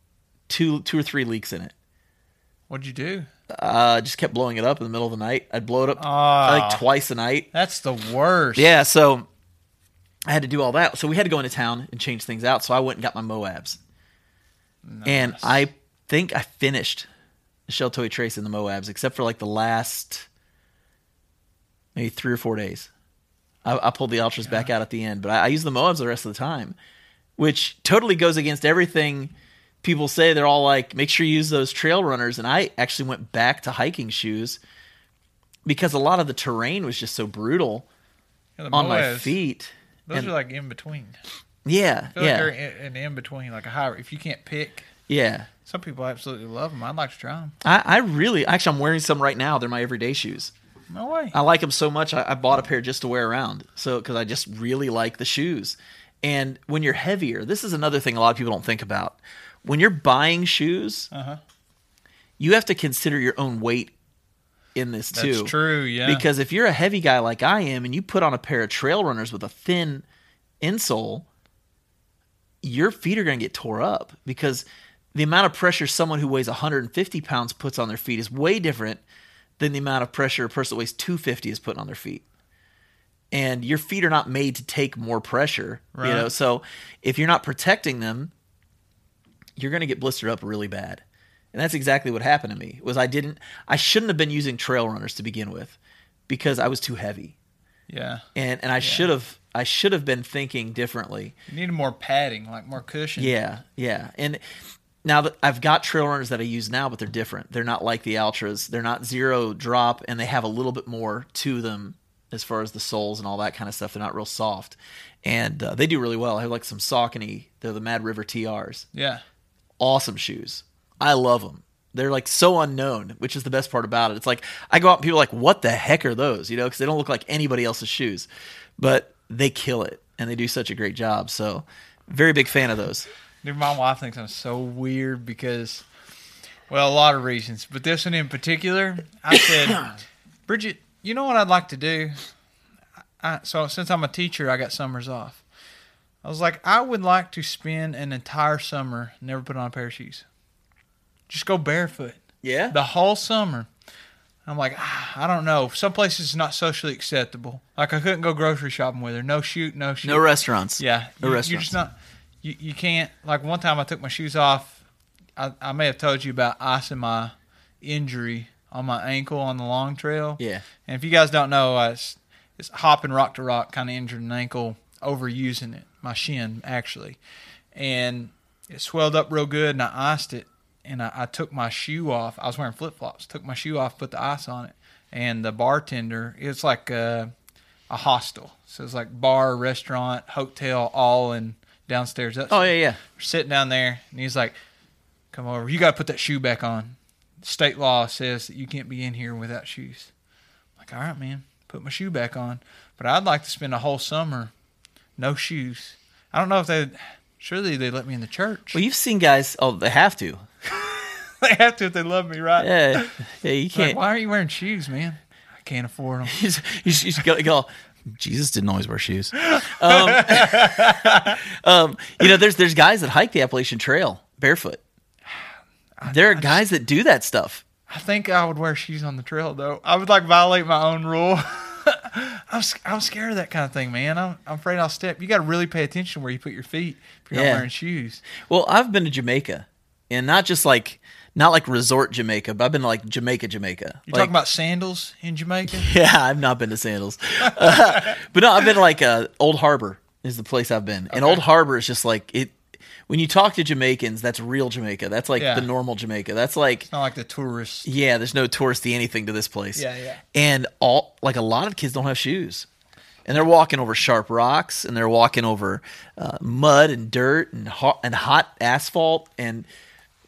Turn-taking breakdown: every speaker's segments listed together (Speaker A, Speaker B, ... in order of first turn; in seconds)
Speaker A: 0.5-1.7, 3.5-7.5, 8.6-9.3, 10.3-13.8, 15.0-17.1, 17.7-20.3, 21.9-22.9, 23.6-26.8, 27.4-34.6, 35.6-37.9, 38.7-40.3, 41.6-42.5, 45.1-45.5, 47.6-50.5, 51.3-61.1, 62.4-63.9, 64.7-65.5, 66.0-70.0, 70.6-71.3, 72.6-79.0, 79.6-82.2, 83.3-88.3, 89.6-91.0, 91.5-95.8, 96.3-97.3, 98.3-101.3, 103.2-104.4, 105.0-118.8, 119.8-133.1, 152.4-152.8, 160.0-161.7, 170.4-170.6, 192.5-193.0, 208.7-210.4, 212.6-214.0, 216.3-224.8, 226.1-227.6, 237.3-237.7, 238.4-244.3, 245.7-256.9, 257.8-262.7, 263.2-269.7
Speaker B: 2.7-3.3, 6.0-6.8, 7.5-8.7, 14.8-15.7, 38.6-39.3, 40.1-41.1, 42.1-44.9, 45.7-47.5, 50.9-51.4, 61.1-61.4, 65.1-66.2, 85.9-86.3, 97.9-98.2, 98.8-99.1, 101.5-103.3, 118.9-119.2, 133.4-135.8, 136.7-142.2, 143.2-145.4, 146.2-150.2, 151.3-152.2, 152.7-153.7, 154.4-160.2, 160.8-164.8, 165.4-177.2, 177.7-187.3, 187.9-194.5, 195.3-200.1, 200.8-204.5, 205.2-208.8, 210.7-213.1, 213.7-216.4, 219.4-221.4, 226.0-226.6, 227.9-238.2, 244.1-245.9, 247.5-248.2, 251.1-251.4, 255.4-255.7, 256.9-257.9, 259.8-260.2